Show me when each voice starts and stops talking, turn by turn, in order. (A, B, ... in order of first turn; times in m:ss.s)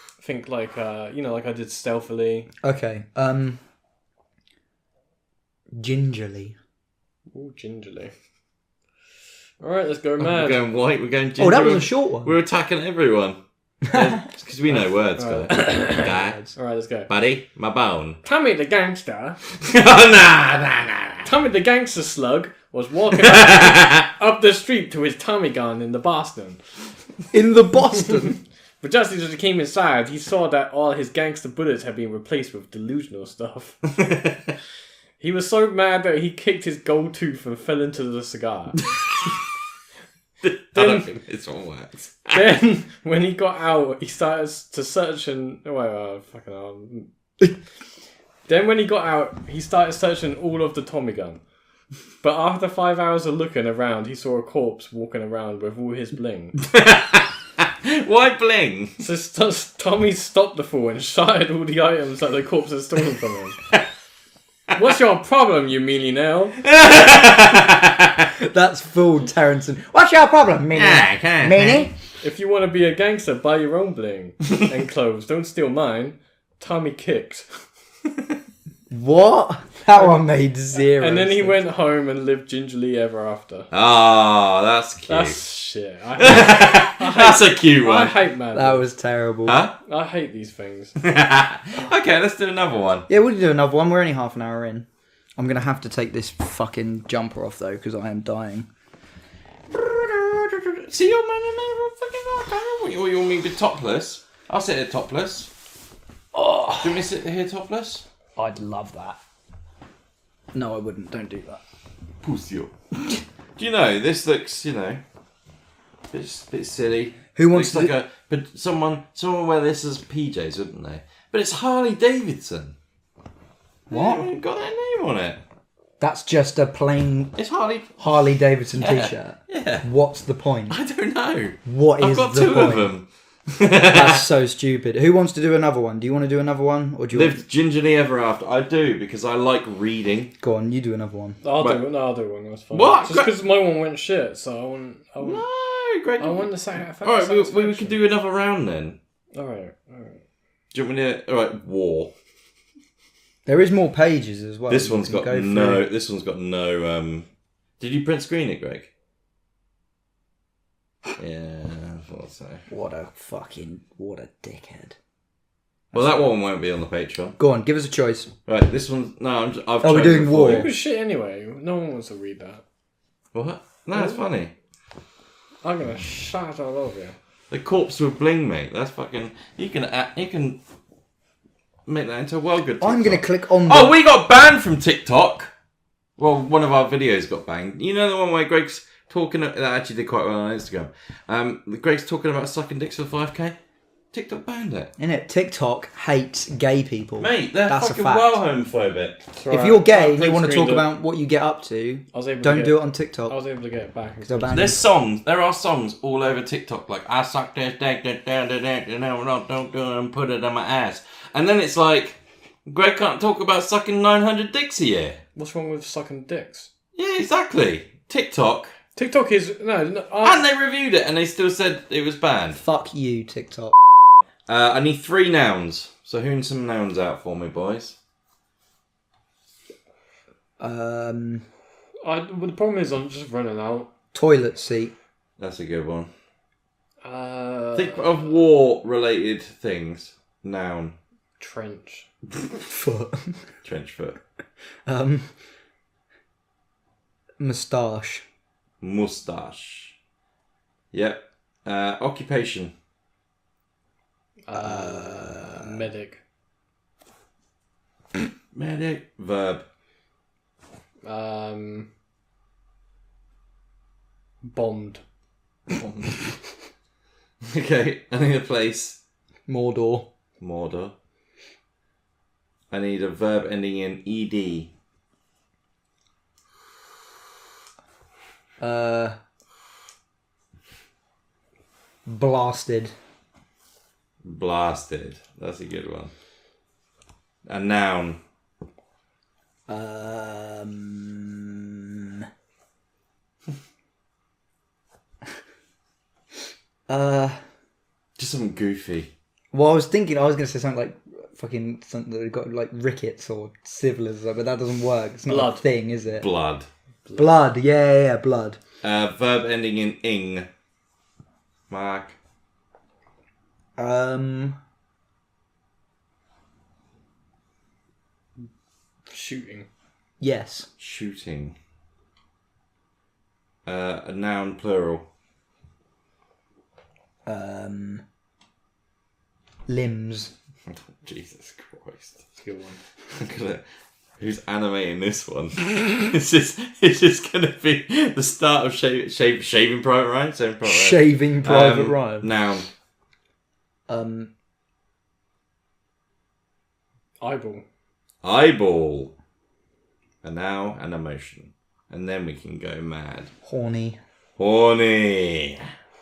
0:00.2-0:02.5 A
0:02.6-0:03.6 B
0:05.7-0:06.6 B
0:07.3-0:08.1 A
0:09.6-0:10.6 A
0:10.2-0:13.4 C
0:11.4-0:12.4 B
0:13.9-0:14.2 B
0:13.9-0:17.1 A
0:14.1-0:16.4 C
0:15.9-0:16.5 B
0:17.1-0:18.2 C
0:18.2-0:19.4 A
0:19.6-0:21.3 C
0:21.2-0:26.6 A
0:23.2-0:24.1 C
0:27.3-0:28.4 B
0:28.0-0:28.3 A
0:28.8-0:33.8 A
0:34.0-0:34.5 C
0:35.2-0:38.8 A
0:39.0-0:39.3 C
0:40.4-0:42.5 C
0:40.8-0:41.1 A
0:42.3-0:47.1 A
0:48.5-0:51.4 A
0:52.2-0:56.6 A
0:56.6-0:59.0 C
0:59.0-1:03.6 A
1:04.8-1:06.6 A
1:06.6-1:08.3 C
1:08.4-1:11.9 B
1:10.8-1:11.9 C
1:12.2-1:17.7 A
1:18.9-1:21.6 B
1:20.0-1:20.2 A
1:21.0-1:23.7 A
1:23.7-1:25.4 C
1:25.1-1:28.8 A
1:26.2-1:28.2 C
1:28.6-1:29.6 B
1:29.5-1:29.8 C
1:29.8-1:31.0 A
1:31.0-1:33.1 C
1:33.1-1:34.9 B
1:35.4-1:38.7 B
1:39.7-1:45.5 C
1:46.3-1:47.1 B
1:46.8-1:48.0 C
1:48.4-1:49.2 B
1:50.5-1:51.6 B
1:52.2-1:55.0 C
1:56.1-2:02.8 C
1:57.4-1:57.9 B
2:03.9-2:04.3 B
2:03.9-2:05.4 C
2:06.0-2:07.4 B
2:07.4-2:08.0 C
2:08.0-2:10.8 B
2:08.8-2:09.9 C
2:10.7-2:14.3 C
2:11.6-2:12.9 B
2:13.9-2:17.4 B
2:17.1-2:20.3 C
2:20.4-2:21.4 B
2:21.4-2:25.4 A
2:22.7-2:23.3 C
2:25.2-2:29.0 C
2:26.2-2:28.0 A
2:29.4-2:30.2 A
2:30.7-2:32.1 C
2:33.5-2:35.8 B
2:34.7-2:37.3 C
2:37.8-2:38.9 C
2:41.2-2:42.6 C
2:42.7-2:45.0 B
2:45.9-2:46.3 B
2:45.9-2:47.4 C
2:47.4-2:48.3 B
2:48.5-2:50.7 C
2:49.8-2:50.7 B
2:50.4-2:52.6 A
2:53.3-2:54.5 C
2:53.9-2:54.3 A
2:55.6-2:57.2 A
2:57.5-3:00.6 C
3:01.9-3:05.5 C
3:02.8-3:03.9 B
3:06.2-3:13.6 C
3:14.1-3:14.9 C
3:15.0-3:18.4 B
3:17.2-3:19.2 C
3:19.3-3:20.9 A
3:19.5-3:23.4 B
3:22.1-3:24.8 A
3:24.2-3:24.8 B
3:24.5-3:35.2 C
3:35.4-3:36.7 A
3:37.0-3:38.7 C
3:39.0-3:40.4 A
3:40.2-3:42.6 C
3:42.5-3:43.8 B
3:44.5-3:48.0 C
3:50.6-3:51.4 B
3:52.0-3:53.9 A
3:54.1-3:54.9 B
3:55.4-3:56.1 C
3:57.0-3:58.3 A
3:57.8-4:01.0 C
4:01.4-4:02.1 A
4:02.6-4:03.4 B
4:03.6-4:04.2 C
4:04.9-4:05.3 B
4:07.4-4:08.2 B
4:08.8-4:10.0 C
4:10.9-4:12.7 C
4:14.5-4:16.2 A
4:14.5-4:15.8 B
4:18.5-4:19.6 C
4:21.0-4:21.9 A
4:24.4-4:25.0 A
4:25.8-4:26.1 C
4:27.4-4:29.0 C
4:29.5-4:30.1 B
4:30.4-4:30.9 C
4:32.7-4:34.7 C
4:38.6-4:39.2 B
4:42.1-4:42.9 B
4:44.2-4:46.1 C
4:47.5-4:48.2 C
4:49.7-4:52.3 B
4:56.9-4:57.4 B
4:58.2-4:59.1 C
4:59.5-5:06.3 B
5:05.3-5:05.6 A
5:06.2-5:06.7 C
5:07.2-5:08.6 B
5:08.8-5:10.5 C
5:11.7-5:12.2 C
5:13.8-5:14.6 B
5:19.1-5:19.7 A
5:20.2-5:20.7 B
5:20.8-5:21.6 C
5:23.6-5:25.1 C
5:27.3-5:28.0 B
5:29.7-5:30.3 B
5:30.7-5:32.2 C
5:32.4-5:32.8 A
5:33.1-5:33.6 C
5:34.2-5:42.7 C
5:40.6-5:42.3 B
5:43.9-5:44.3 B
5:47.2-5:47.6 A
5:48.2-5:49.1 C
5:50.2-5:53.3 C
5:53.4-5:54.0 B
5:54.4-5:55.7 C